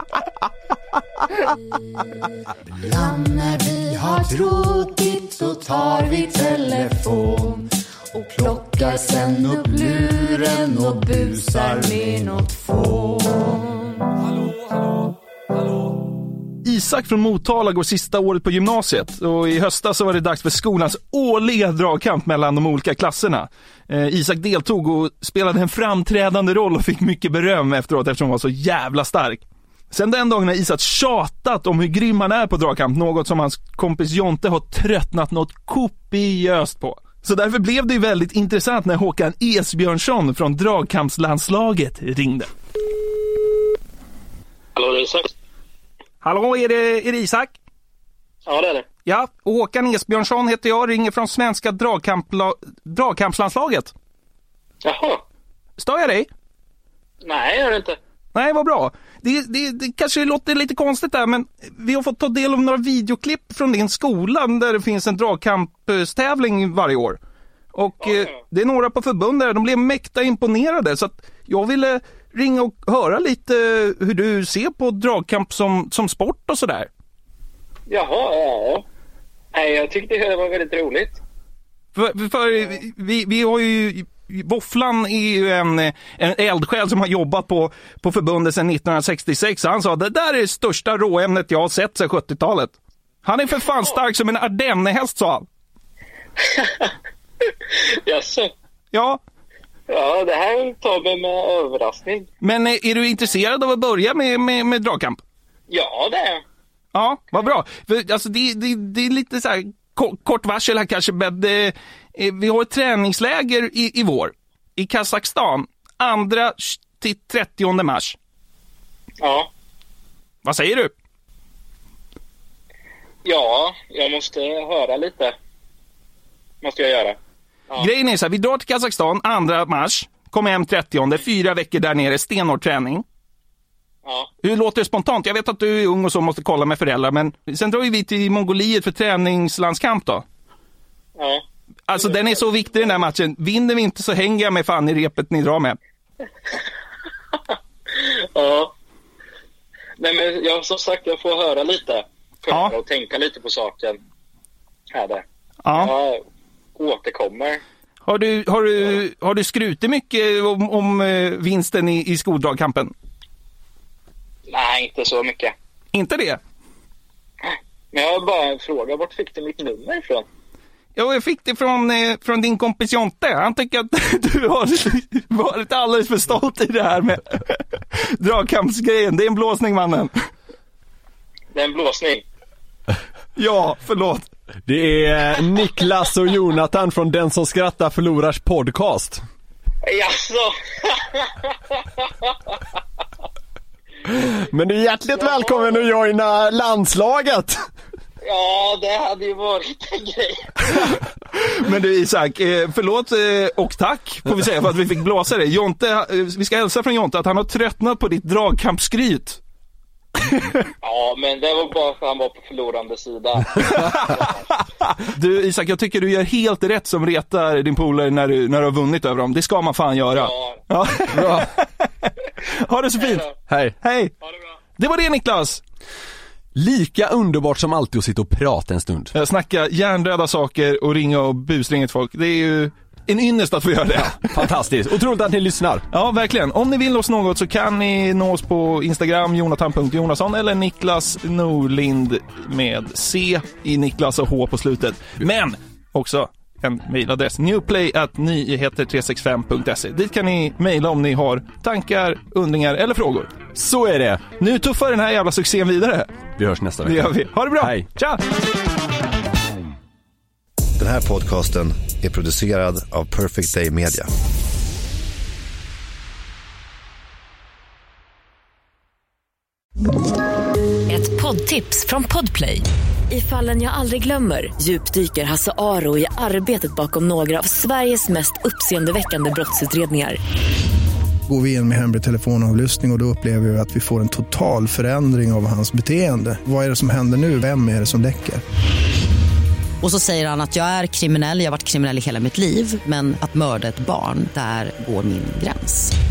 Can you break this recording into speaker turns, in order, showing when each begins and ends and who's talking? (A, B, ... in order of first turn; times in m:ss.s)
0:02.7-0:14.0 A
0:16.6-0:42.5 B
0:44.8-0:45.3 C
0:46.2-0:47.6 B
0:48.5-0:48.9 C
0:49.1-0:53.9 B
0:54.8-0:55.2 C
0:55.8-0:56.3 B
0:57.2-0:58.0 C
0:58.3-1:07.2 B
1:07.7-1:16.9 B
1:17.9-1:18.8 C
1:19.5-1:21.2 C
1:22.0-1:35.5 B
1:36.6-1:36.9 C
1:38.0-1:38.5 C
1:38.9-1:39.2 B
1:39.9-1:42.3 C
1:42.4-1:45.2 B
1:45.7-1:46.4 C
1:46.9-1:58.2 B
1:59.2-1:59.5 C
2:00.4-2:00.9 B
2:03.2-2:05.4 C
2:06.6-2:07.2 C
2:07.8-2:13.0 B
2:14.0-2:14.3 C
2:14.4-2:20.2 B
2:21.2-2:21.4 C
2:21.9-2:25.8 B
2:22.0-2:22.4 C
2:28.0-2:28.7 C
2:30.0-2:34.0 C
2:32.5-2:32.8 B
2:34.9-2:36.2 C
2:35.6-2:35.9 B
2:36.8-2:37.6 C
2:38.1-2:42.9 B
2:44.5-2:45.5 C
2:45.9-2:46.4 B
2:47.9-2:50.3 C
2:51.0-3:00.3 B
3:01.5-3:02.2 C
3:03.4-3:04.3 B
3:04.7-3:09.2 D
3:09.8-3:11.3 C
3:14.0-3:17.6 D
3:15.2-3:15.7 C
3:18.2-3:20.5 C
3:20.7-3:29.4 B
3:30.8-3:34.4 C
3:35.0-3:43.3 B
3:40.2-3:40.6 C
3:41.1-3:41.5 D
3:43.0-3:43.3 C
3:43.5-3:43.8 D
3:43.8-3:44.1 B
3:44.2-3:44.5 C
3:44.8-3:45.6 B
3:46.6-3:49.1 D
3:49.1-3:54.5 B
3:54.3-3:55.9 D
3:55.9-4:13.4 B
4:13.6-4:14.3 D
4:14.4-4:16.1 B
4:16.4-4:17.9 D
4:16.8-4:18.2 B
4:20.8-4:24.1 E
4:30.9-4:40.2 F
4:41.3-4:48.4 G
4:49.8-4:55.9 H